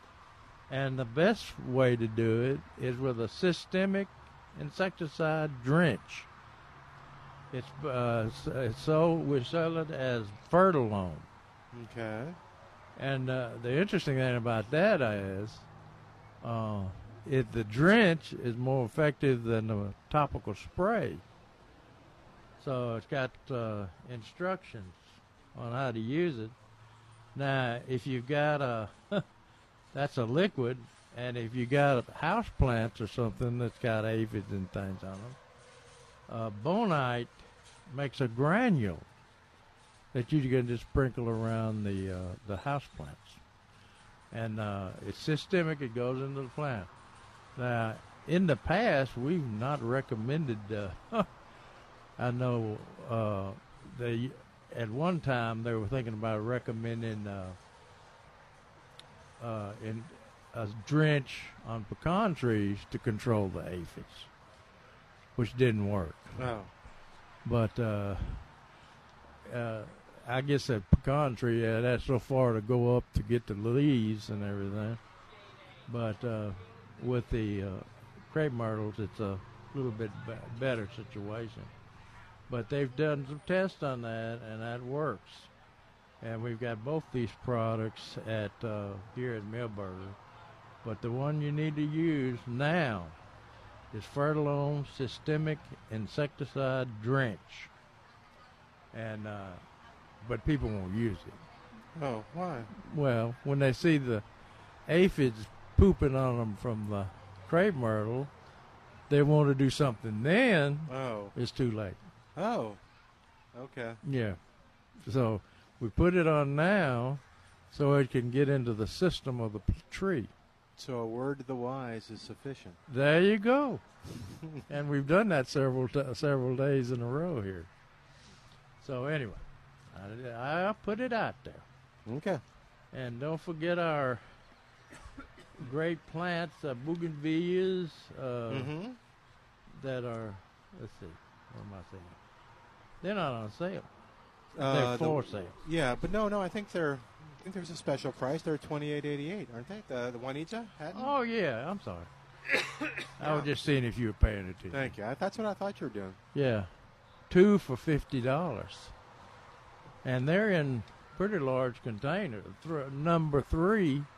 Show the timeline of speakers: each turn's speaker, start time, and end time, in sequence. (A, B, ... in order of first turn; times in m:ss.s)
0:00.7-0:06.3 A
0:07.5-0:11.3 A
0:11.7-0:12.4 B
0:13.0-0:15.7 A
0:16.4-0:21.2 A
0:22.6-0:25.0 A
0:25.6-0:26.6 A
0:27.4-0:29.2 A
0:29.9-0:35.4 A
0:36.3-0:39.1 A
0:40.1-0:43.4 A
0:44.3-0:46.9 A
0:47.6-0:51.3 A
0:52.2-0:57.6 A
0:59.4-1:04.3 A
1:05.4-1:06.4 A
1:06.4-1:06.7 B
1:07.4-1:08.5 A
1:09.4-1:15.0 A
1:15.9-1:21.7 A
1:22.5-1:25.5 A
1:26.2-1:30.2 A
1:30.8-1:33.2 A
1:33.9-1:37.7 A
1:38.9-1:39.6 A
1:40.2-1:41.4 A
1:42.0-1:42.7 B
1:42.7-1:44.2 A
1:44.9-1:48.3 A
1:49.1-1:52.0 A
1:50.9-1:51.4 B
1:52.4-1:52.8 B
1:53.5-1:54.0 B
1:54.0-1:54.4 A
1:55.0-2:00.3 A
2:00.8-2:02.8 B
2:02.9-2:03.8 A
2:04.7-2:07.7 A
2:08.8-2:11.6 A
2:12.1-2:12.4 B
2:12.9-2:14.2 A
2:15.6-2:18.7 A
2:18.5-2:19.0 B
2:19.7-2:22.2 A
2:23.0-2:23.9 A
2:24.6-2:31.1 B
2:24.6-2:25.6 A
2:30.9-2:32.1 A
2:33.2-2:35.0 A
2:33.2-2:33.5 B
2:34.7-2:36.2 B
2:36.3-2:36.7 A
2:37.3-2:38.9 A
2:40.0-2:44.1 A